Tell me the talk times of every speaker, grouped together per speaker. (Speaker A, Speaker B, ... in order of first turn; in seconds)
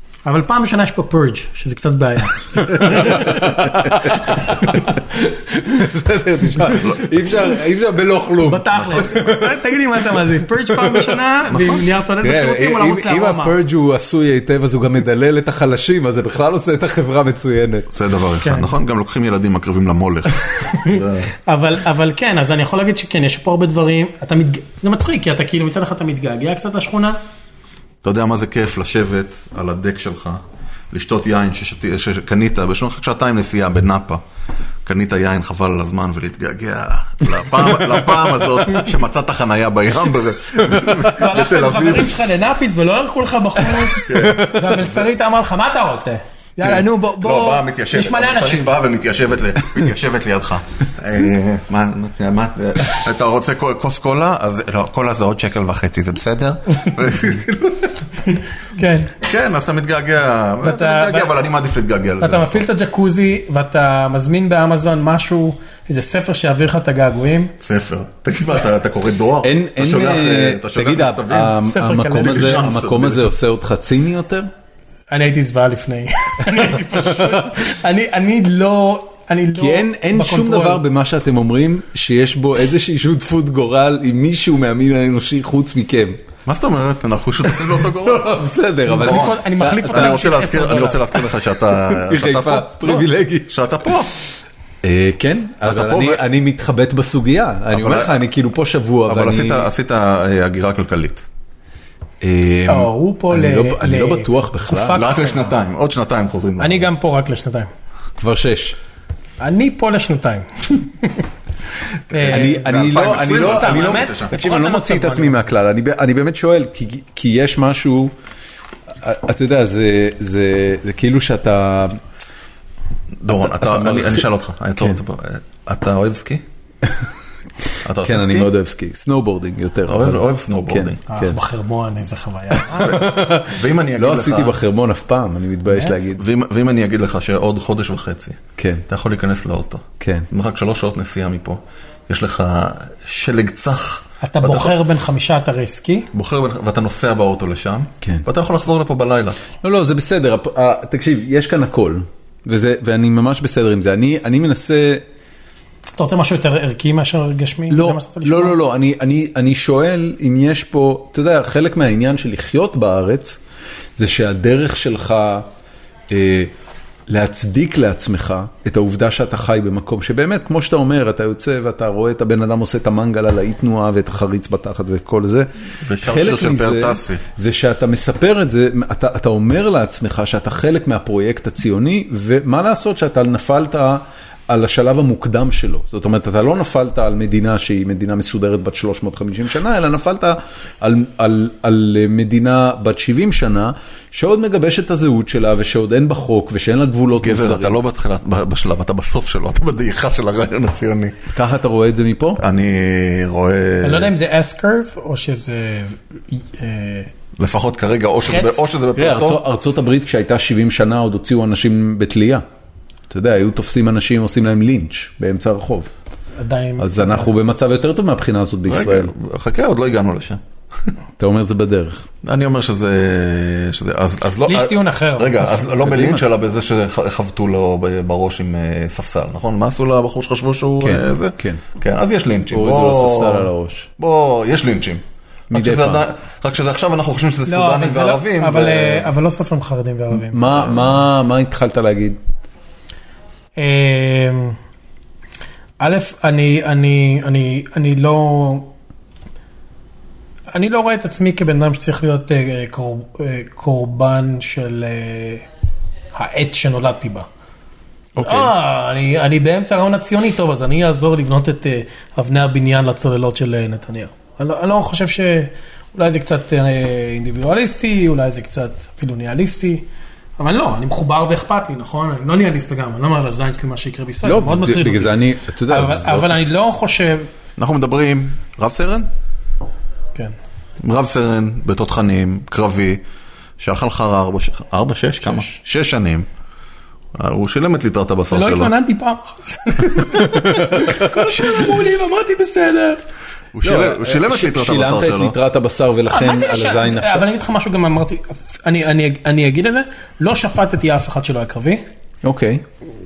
Speaker A: 0.2-4.8, 8.4-13.6, 18.4-18.7, 20.7-27.2, 41.0-48.8, 58.2-59.1, 60.6-61.3, 62.2-67.5, 71.6-72.6, 75.1-80.8, 88.9-91.2, 102.7-105.6, 106.6-107.7, 109.4-111.3, 112.1-115.5, 131.1-133.1, 144.2-146.1, 156.0-158.6, 203.8-207.1, 208.3-208.6, 216.4-217.3, 224.4-226.0, 237.4-240.8, 243.6-244.6, 245.8-248.7, 250.5-255.4, 256.1-257.3, 258.2-269.8, 270.4-277.3, 288.3-293.0, 296.1-301.8
Speaker B: 2.6-9.7, 10.7-11.1, 12.2-17.9, 44.1-44.7, 69.4-74.5, 76.7-77.4, 79.5-86.2, 87.5-90.5, 91.8-93.5, 94.8-99.7, 102.2-105.0, 108.2-108.8, 112.3-118.1, 119.0-122.0, 123.3-124.3, 128.0-131.4, 132.6-136.2, 138.6-138.8, 140.0-140.3, 149.6-155.1, 157.7-163.4, 164.0-165.5, 166.1-166.5, 167.1-197.8, 201.3-202.4, 208.9-212.4, 213.1-215.9, 216.8-219.1, 221.2-222.1, 225.7-226.2, 230.8-231.6, 232.5-233.9, 235.5-236.0, 240.1-242.2, 258.2-258.5, 274.2-276.5, 290.0-291.5, 293.6-297.3, 302.2-302.6
Speaker C: 6.7-7.2, 11.5-11.9, 17.9-21.3, 28.0-34.2, 34.9-42.1, 44.1-45.0, 46.6-58.0, 59.2-62.6, 67.6-71.6, 72.2-73.3, 86.5-88.4, 89.0-94.1, 95.6-96.2, 97.7-98.2, 99.1-101.2, 104.9-106.9, 112.1-114.3, 123.2-126.4, 127.8-128.5, 129.9-131.0, 132.8-134.6, 136.1-144.8, 146.1-149.4, 175.8-177.2, 197.2-201.2, 202.4-204.1, 207.4-209.4, 218.7-220.9, 222.2-239.1, 277.6-279.1, 280.8-283.0, 283.6-286.3, 287.1-288.7, 293.5-295.4